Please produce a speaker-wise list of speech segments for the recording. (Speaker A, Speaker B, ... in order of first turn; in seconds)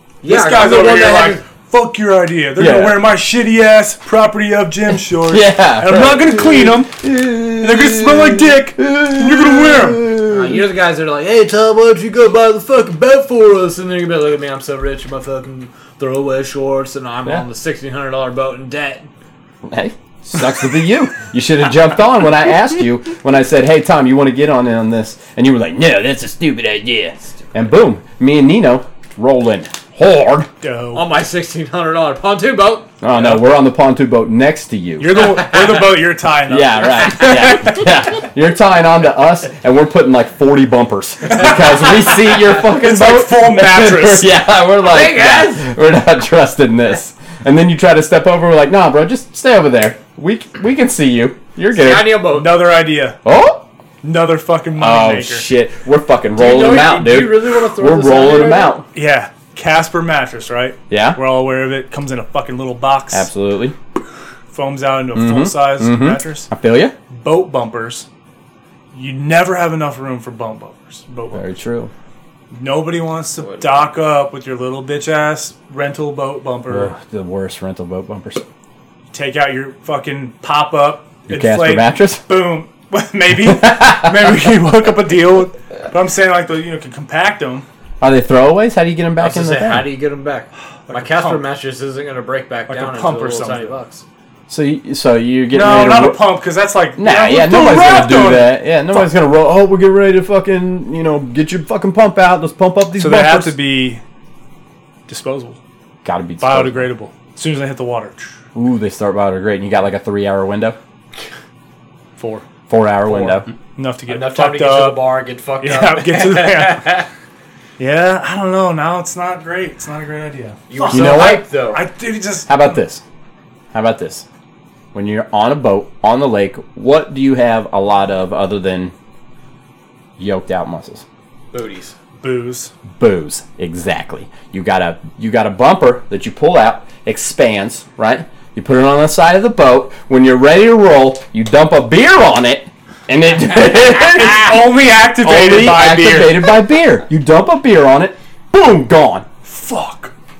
Speaker A: 0.2-1.4, 10.2-19.1, 30.9-33.0, 44.8-45.7, 51.7-52.7, 56.4-58.8, 73.4-74.0, 89.2-94.0, 114.1-117.0, 120.7-121.8, 131.5-131.9
Speaker B: 0.2-7.0, 7.6-10.1, 30.6-31.1, 33.1-33.4, 35.0-37.6, 41.3-42.0, 42.5-44.4, 52.3-53.2, 54.0-55.5, 58.9-63.3, 64.5-66.5, 67.1-68.1, 68.9-71.4, 72.5-76.9, 79.1-87.7, 90.9-91.4, 92.7-93.8, 95.5-99.1, 102.9-104.0, 105.1-105.6, 106.4-108.3, 112.2-112.5, 113.0-117.0, 117.8-122.8, 132.2-132.7, 144.2-146.6, 149.4-150.1
Speaker C: 2.6-3.0, 5.2-10.6, 19.6-30.5, 33.0-35.4, 36.5-52.3, 53.2-53.6, 54.7-58.9, 60.9-61.2, 63.1-63.8, 65.1-66.9, 71.3-71.9, 76.7-78.4, 81.3-82.2, 83.4-84.4, 88.0-89.9, 94.5-96.3, 97.0-103.6, 106.0-106.9, 108.5-110.8, 112.7-113.5, 120.9-121.4, 122.5-123.0, 123.7-124.2, 124.9-128.9, 130.2-131.0, 132.9-149.3